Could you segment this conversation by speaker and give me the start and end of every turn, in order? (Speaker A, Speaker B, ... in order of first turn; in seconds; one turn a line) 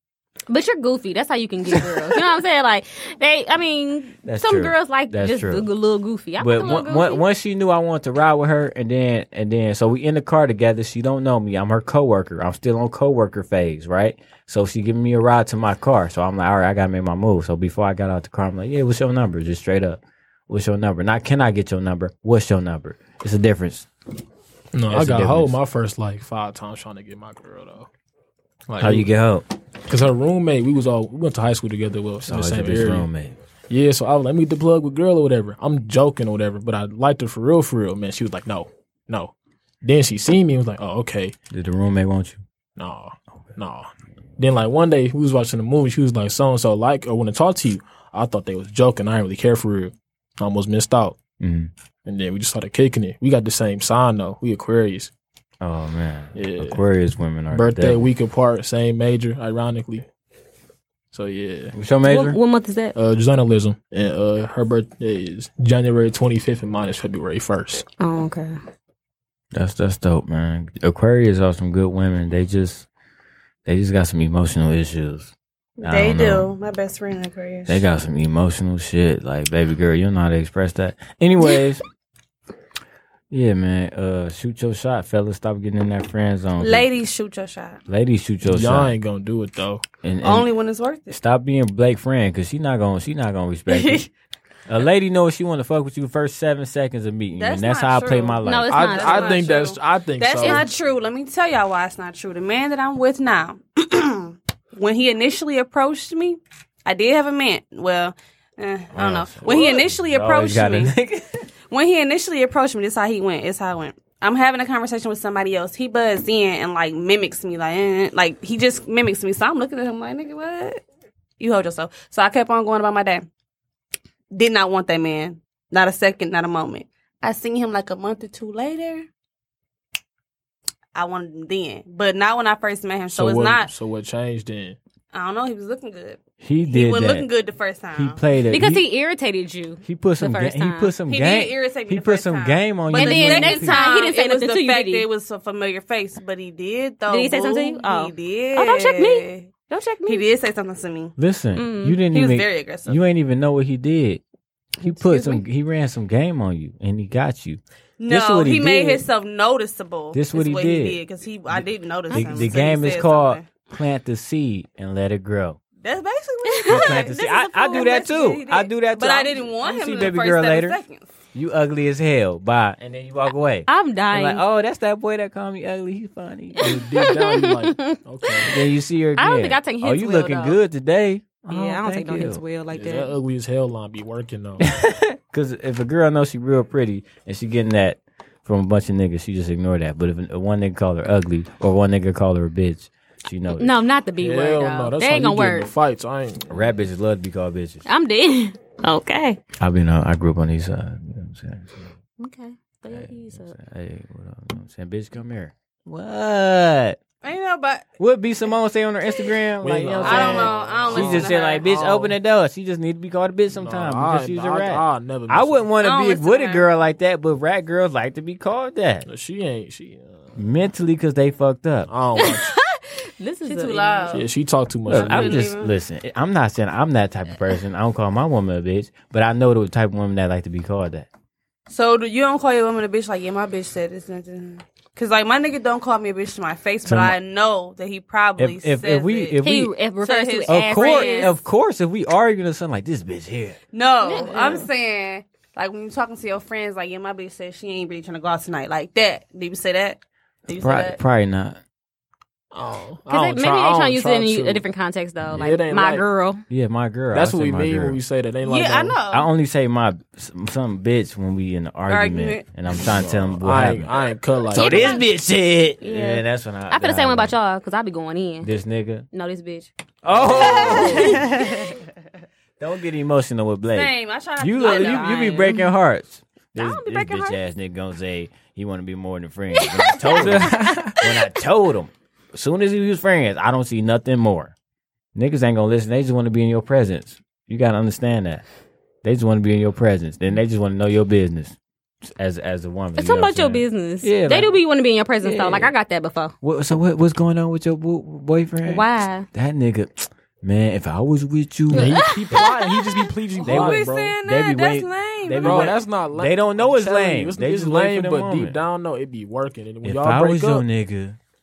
Speaker A: 0.5-7.2
Speaker B: 4.2-5.7
Speaker B: 6.4-23.9
Speaker C: 24.8-27.9
Speaker B: 24.9-25.6
Speaker C: 28.7-29.0
Speaker B: 28.8-29.5
Speaker C: 29.9-32.8
Speaker B: 32.2-33.4
Speaker C: 33.7-39.3
Speaker C: 39.9-41.3
Speaker B: 41.5-42.4
Speaker C: 42.8-43.9
Speaker C: 44.4-49.9
Speaker C: 50.4-51.1
Speaker B: 51.4-51.7
Speaker C: 52.1-55.1
Speaker B: 55.6-58.1
Speaker C: 57.6-60.0
Speaker C: 61.1-61.7
Speaker B: 61.7-62.4
Speaker A: 62.0-63.0
Speaker C: 63.0-67.8
Speaker A: 68.0-68.5
Speaker B: 69.5-72.9
Speaker B: 73.7-76.5
Speaker D: 75.8-77.8
Speaker B: 77.7-81.8
Speaker B: 83.3-86.9
Speaker D: 86.6-87.8
Speaker B: 87.9-88.9
Speaker C: 88.5-89.8
Speaker B: 90.0-90.5
Speaker D: 90.2-91.2
Speaker B: 91.1-94.1
Speaker D: 93.7-94.0
Speaker B: 94.7-98.9
Speaker D: 97.4-110.9
Speaker A: 98.4-99.5
Speaker C: 98.8-100.6
Speaker B: 108.9-111.4
Speaker D: 111.7-120.8
Speaker D: 121.4-123.3
Speaker D: 124.3-129.1
Speaker D: 130.9-133.7
Speaker C: 133.1-134.8
Speaker D: 135.1-138.2
Speaker B: 136.4-137.3
Speaker B: 137.9-138.8
Speaker A: 138.5-140.9
Speaker B: 139.8-143.8
Speaker D: 141.1-149.5
Speaker A: 142.9-145.1
Speaker A: 147.1-150.2
Speaker D: 150.1-151.1
Speaker B: 151.2-154.2
Speaker A: 151.6-152.0
Speaker D: 152.1-153.0
Speaker B: 154.8-159.0
Speaker A: 154.8-155.4
Speaker D: 158.0-163.5
Speaker B: 160.1-165.6
Speaker A: 162.1-162.5
Speaker D: 165.8-171.1
Speaker A: 166.5-167.7
Speaker B: 166.7-170.8
Speaker B: 171.3-176.7
Speaker A: 173.7-174.4
Speaker A: 176.6-178.5
Speaker C: 176.6-178.4
Speaker B: 178.5-182.4
Speaker A: 179.2-180.6
Speaker A: 181.5-183.2
Speaker C: 182.7-184.6
Speaker B: 184.6-193.7
Speaker A: 193.6-195.7
Speaker C: 194.2-196.5
Speaker B: 196.5-197.8
Speaker A: 197.8-199.4
Speaker B: 199.6-201.9
Speaker A: 202.2-203.6
Speaker B: 202.9-207.0
Speaker D: 207.2-207.8
Speaker B: 208.0-219.1
Speaker C: 209.6-212.1
Speaker D: 210.0-211.6
Speaker C: 213.6-215.6
Speaker D: 215.8-216.7
Speaker C: 219.1-220.2
Speaker B: 220.3-221.9
Speaker C: 221.9-222.5
Speaker A: 222.1-224.2
Speaker D: 223.4-224.3
Speaker C: 224.2-225.3
Speaker B: 224.9-231.1
Speaker D: 224.9-225.7
Speaker D: 231.7-239.4
Speaker B: 236.8-237.2
Speaker B: 238.4-239.7
Speaker A: 239.4-241.3
Speaker D: 240.0-241.3
Speaker B: 240.5-243.6
Speaker D: 243.7-251.0
Speaker A: 244.0-244.7
Speaker B: 250.6-251.6
Speaker C: 252.5-254.6
Speaker A: 253.1-256.4
Speaker C: 255.5-256.0
Speaker B: 256.5-258.0
Speaker C: 257.1-259.0
Speaker D: 258.4-259.3
Speaker B: 259.1-264.0
Speaker D: 261.9-262.4
Speaker C: 262.9-264.6
Speaker B: 264.5-267.3
Speaker A: 264.6-265.0
Speaker D: 264.6-265.0
Speaker A: 265.8-268.5
Speaker B: 268.4-269.1
Speaker A: 269.1-271.7
Speaker B: 270.0-271.5
Speaker B: 272.6-284.5
Speaker D: 273.7-275.5
Speaker A: 274.6-275.7
Speaker A: 276.5-277.4
Speaker A: 279.6-280.6
Speaker C: 280.4-280.9
Speaker B: 285.1-288.4
Speaker B: 289.0-291.6
Speaker B: 292.1-294.6
Speaker A: 292.9-296.3
Speaker B: 295.2-295.7
Speaker B: 296.4-302.0
Speaker A: 298.6-299.3
Speaker A: 301.7-302.9
Speaker C: 301.7-304.1
Speaker D: 303.4-305.7
Speaker B: 303.4-308.6
Speaker C: 305.4-310.6
Speaker B: 309.8-311.2